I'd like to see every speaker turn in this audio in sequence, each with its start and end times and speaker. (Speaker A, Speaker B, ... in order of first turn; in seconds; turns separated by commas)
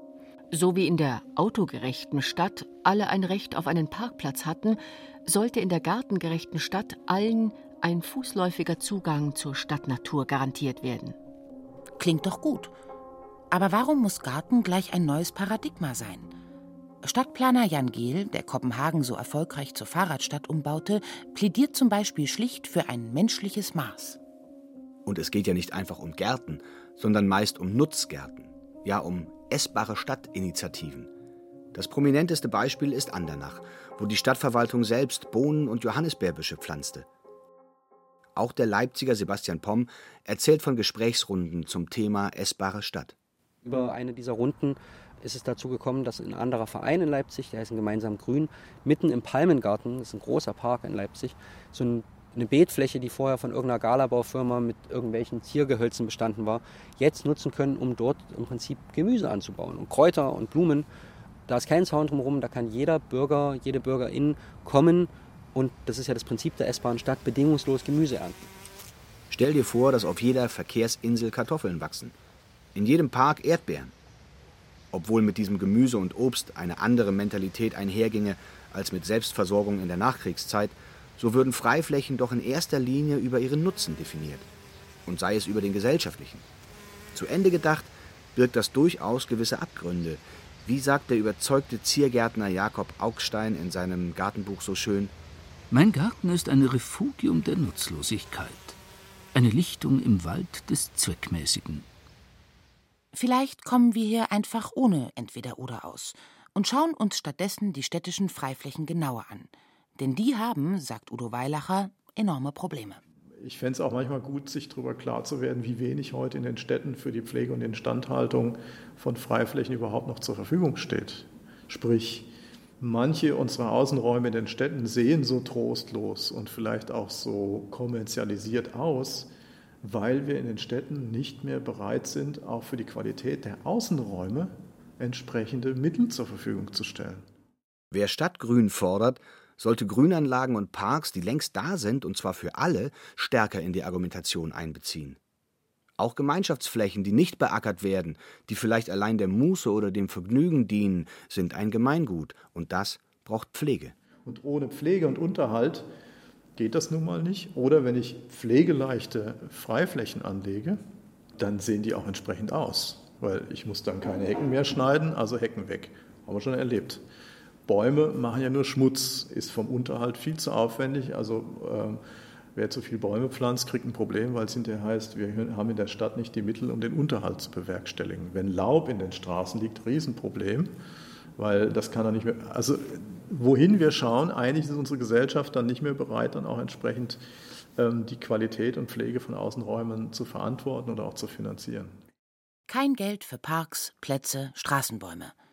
Speaker A: 0.5-11.2, Speaker B: 12.0-12.7, Speaker B: 13.5-16.3, Speaker B: 17.0-24.2, Speaker C: 25.0-31.1, Speaker C: 31.7-37.1, Speaker C: 38.4-43.1, Speaker D: 43.6-60.9, Speaker D: 61.5-68.4, Speaker C: 69.3-72.1, Speaker C: 72.7-73.9, Speaker C: 74.9-84.5, Speaker C: 85.0-86.4, Speaker C: 87.1-95.1, Speaker E: 95.7-98.8, Speaker E: 99.3-101.8, Speaker B: 103.1-113.0, Speaker F: 113.4-122.3, Speaker F: 122.8-129.3, Speaker F: 129.8-137.3, Speaker C: 137.9-145.2, Speaker C: 146.0-153.9, Speaker F: 154.2-155.9, Speaker F: 156.6-160.8, Speaker F: 161.4-167.0, Speaker F: 167.7-172.0, Speaker F: 172.5-180.7, Speaker F: 181.4-187.2, Speaker F: 187.8-192.0, Speaker B: 192.7-195.3